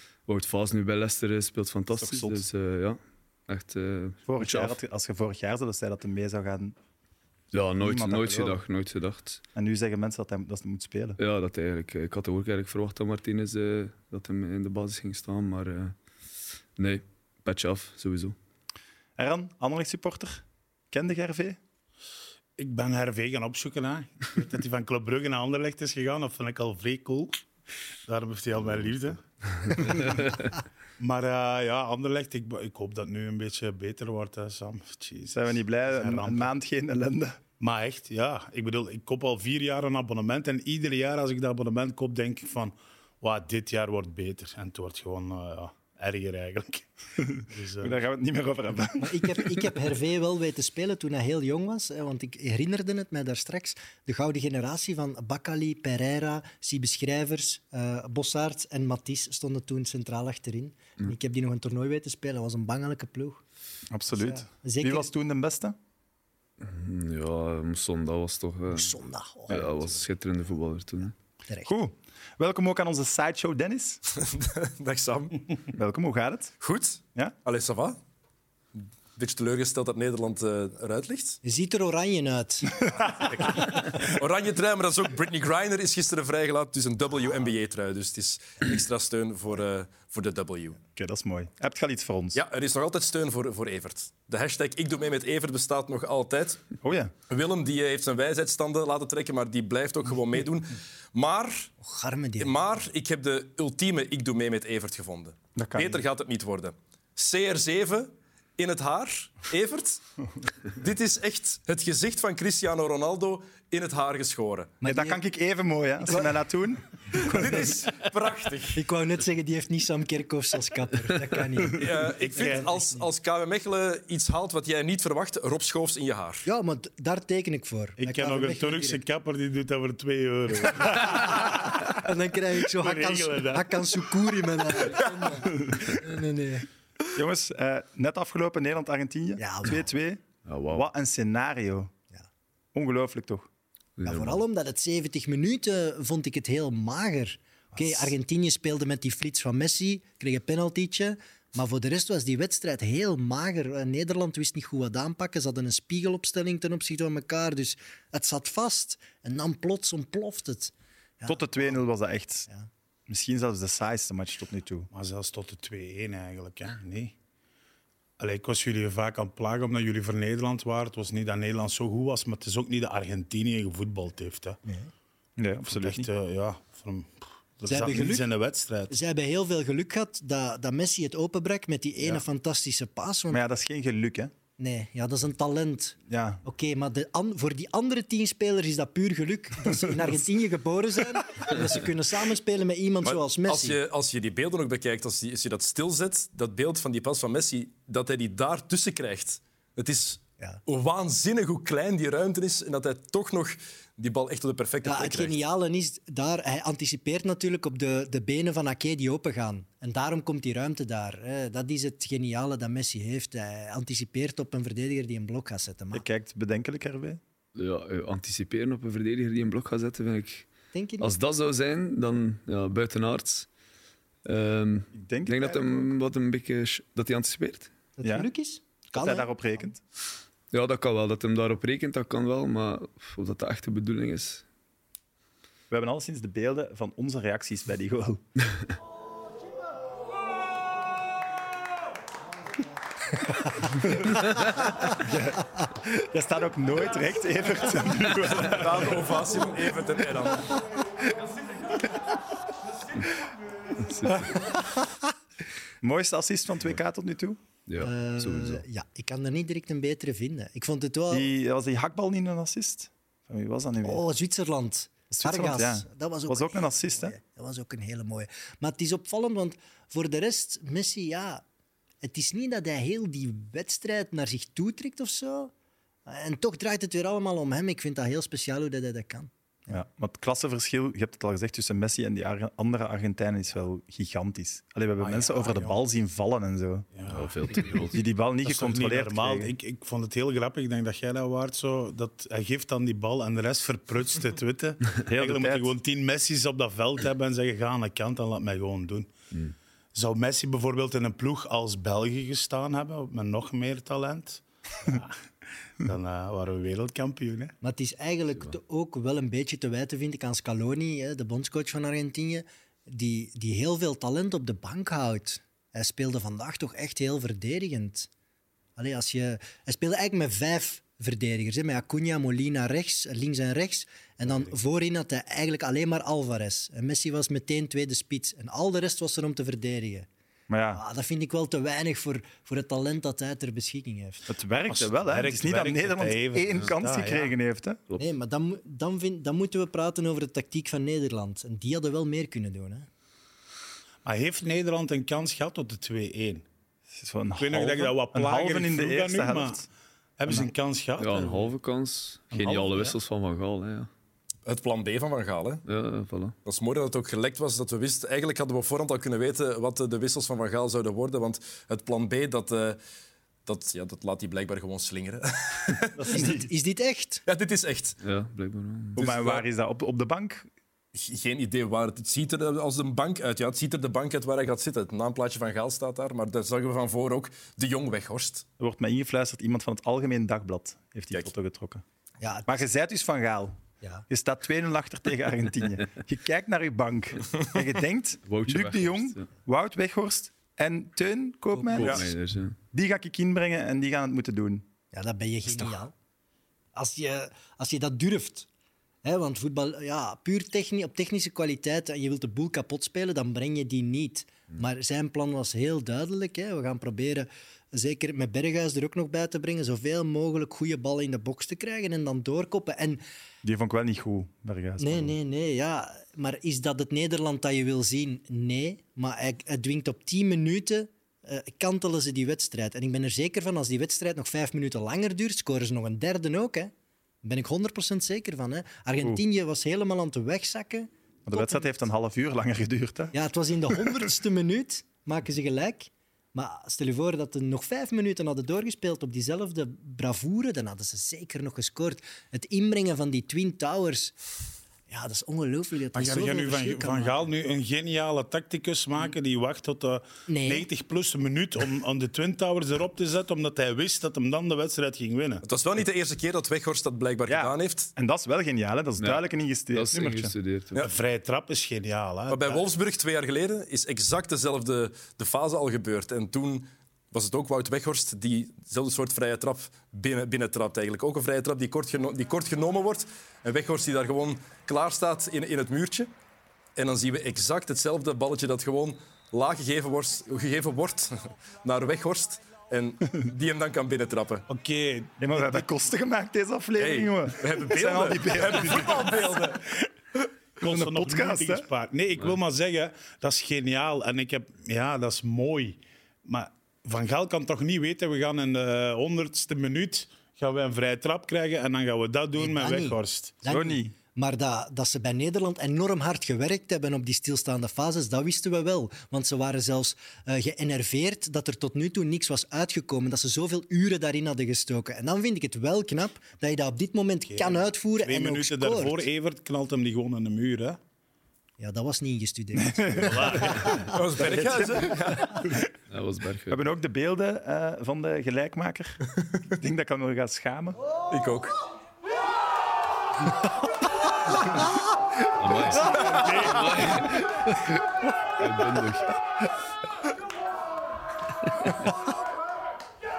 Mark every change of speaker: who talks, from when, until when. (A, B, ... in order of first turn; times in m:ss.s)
0:00.3-0:04.8 A
0:02.0-0:02.5 B
0:04.3-0:06.8 B
0:07.5-0:09.4 A
0:07.8-0:08.6 B
0:09.5-0:11.2 B
0:11.2-0:16.0 A
0:16.8-0:18.4 A
0:19.2-0:21.6 B
0:22.6-0:27.4 C
0:28.0-0:30.3 C
0:29.7-0:30.5 A
0:31.0-0:36.5 C
0:35.3-0:37.4 B
0:37.6-0:48.0 C
0:47.8-0:49.6 B
0:49.0-1:03.4 D
1:03.9-1:05.8 B
1:04.1-1:05.1 D
1:06.6-1:11.1 A
1:08.7-1:09.7 D
1:11.4-1:11.7 D
1:11.6-1:14.0 B
1:14.1-1:15.6 E
1:15.7-1:16.5 B
1:16.6-1:18.0 E
1:19.2-1:21.4 E
1:21.4-1:22.8 D
1:23.4-1:30.8 E
1:30.9-1:32.4 B
1:32.3-1:36.6 E
1:36.8-1:37.1 B
1:37.3-1:41.7 E
1:41.8-1:42.6 D
1:42.4-1:50.0 E
1:45.6-1:46.0 B
1:50.7-1:54.7 E
1:54.8-1:55.2 D
1:54.8-1:57.7 B
1:57.2-1:58.8 E
1:58.7-2:03.1 D
2:01.7-2:06.4 E
2:02.2-2:02.7 C
2:06.4-2:09.0 D
2:08.0-2:12.0 C
2:11.7-2:16.7 D
2:12.7-2:13.8 C
2:17.1-2:21.9 B
2:19.4-2:19.9 D
2:20.4-2:20.8 A
2:22.7-2:23.5 B
2:24.0-2:24.4 A
2:24.0-2:41.4 D
2:41.3-2:42.5 B
2:43.1-2:44.9 B
2:44.9-2:47.1 C
2:48.2-2:54.6 C
2:54.7-2:54.9 D
2:55.4-2:56.1 B
2:55.6-2:58.9 C
2:57.7-2:58.3 D
2:58.9-3:03.4 D
3:03.3-3:04.3 B
3:04.6-3:13.8 D
3:06.1-3:06.4 B
3:13.0-3:25.3 E
3:24.8-3:36.0 D
3:35.9-3:37.2 B
3:37.6-3:40.5 A
3:40.7-3:41.2 D
3:41.0-3:43.5 A
3:44.2-3:47.7 A
3:44.9-3:46.0 B
3:48.0-3:49.3 D
3:48.0-3:48.3 B
3:48.9-3:49.8 B
3:50.5-3:54.4 A
3:55.7-3:58.2 B
4:03.8-4:09.2 B
4:08.4-4:10.6 E
4:13.8-4:14.5 A
4:15.8-4:17.4 B
4:17.7-4:18.6 A
4:17.8-4:21.3 D
4:21.1-4:24.0 B
4:23.8-4:31.4 D
4:25.1-4:27.1 B
4:32.0-4:35.5 D
4:36.1-4:39.3 D
4:39.7-4:46.9 B
4:45.0-4:45.8 C
4:46.9-4:47.9 C
4:47.1-4:48.0 A
4:47.9-4:49.6 B
4:48.4-4:59.1 C
4:55.0-4:55.7 B
4:59.9-5:05.2 C
5:05.8-5:07.6 C
5:07.6-5:18.1 D
5:18.8-5:30.1 D
5:24.2-5:24.5 C
5:30.5-5:30.8 B
5:30.7-5:34.3 D
5:34.3-5:37.8 B
5:34.7-5:37.3 C
5:38.0-5:42.9 D
5:44.0-5:46.4 C
5:46.9-5:49.7 B
5:47.4-5:49.6 C
5:50.2-5:51.5 C
5:51.0-5:53.9 A
5:52.3-5:53.0 C
5:54.4-5:55.6 E
5:55.7-5:56.3 A
5:56.4-6:02.8 E
6:03.4-6:06.0 E
6:05.9-6:06.5 B
6:06.1-6:07.2 D
6:07.3-6:08.0 E
6:08.0-6:09.0 A
6:09.0-6:09.4 E
6:09.0-6:10.5 B
6:10.9-6:18.4 E
6:18.6-6:21.8 B
6:22.2-6:22.6 D
6:22.4-6:32.1 B
6:28.3-6:29.3 A
6:31.6-6:31.9 D
6:31.7-6:32.6 A
6:32.7-6:34.7 B
6:34.9-6:35.9 D
6:36.7-6:38.5 D
6:39.0-6:53.0 D
6:53.4-6:55.2 B
6:54.8-7:06.7 D
7:07.2-7:11.7 D
7:11.2-7:13.1 B
7:13.1-7:24.1 D
7:13.7-7:14.0 B
7:24.9-7:27.2 D
7:25.9-7:35.4 C
7:30.3-7:30.7 D
7:35.4-7:37.9 E
7:37.3-7:40.3 B
7:39.0-7:40.8 A
7:40.8-7:42.6 C
7:42.3-7:56.1 E
7:56.8-8:04.4 E
8:04.5-8:05.6 C
8:05.2-8:09.3 B
8:06.8-8:09.6 E
8:10.6-8:23.3 C
8:10.6-8:11.7 B
8:22.4-8:39.1 D
8:23.5-8:23.9 B
8:37.3-8:40.8 C
8:41.6-8:44.0 D
8:42.6-8:45.6 B
8:42.9-8:43.8 C
8:43.9-8:45.0 E
8:45.9-8:46.7 A
8:46.5-8:49.0 B
8:49.5-8:50.8 B
8:51.1-8:51.6 E
8:55.4-8:57.8 A
8:55.9-8:56.8 C
8:58.4-8:59.2 A